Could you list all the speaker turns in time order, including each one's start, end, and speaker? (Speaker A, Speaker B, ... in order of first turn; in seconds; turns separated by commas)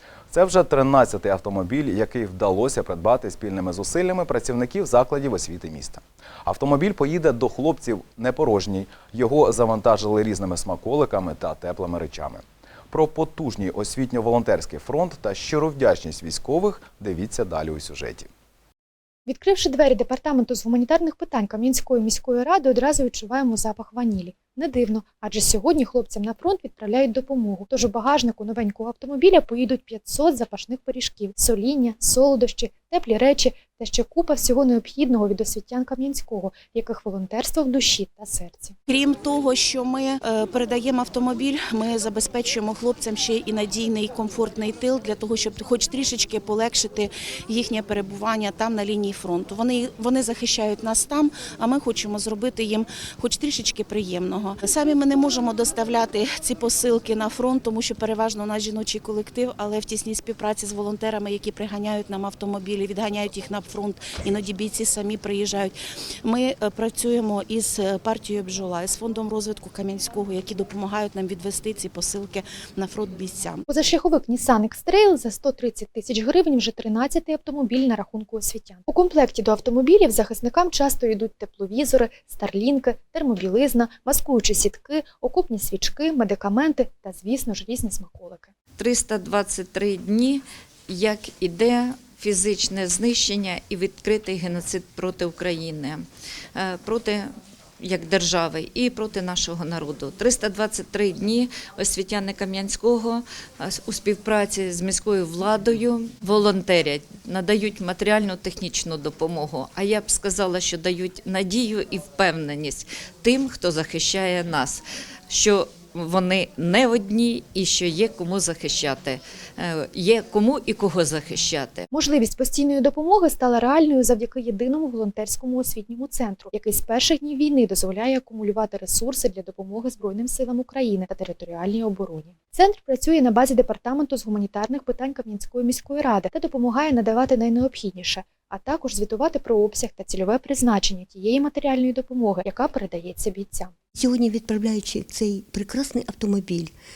Speaker A: 0.3-18.3, Speaker B: 19.3-38.8, Speaker C: 38.9-73.6, Speaker B: 73.7-88.5, Speaker D: 88.8-96.0, Speaker D: 96.5-97.3, Speaker D: 97.8-121.9, Speaker B: 121.9-143.7, Speaker E: 143.9-146.7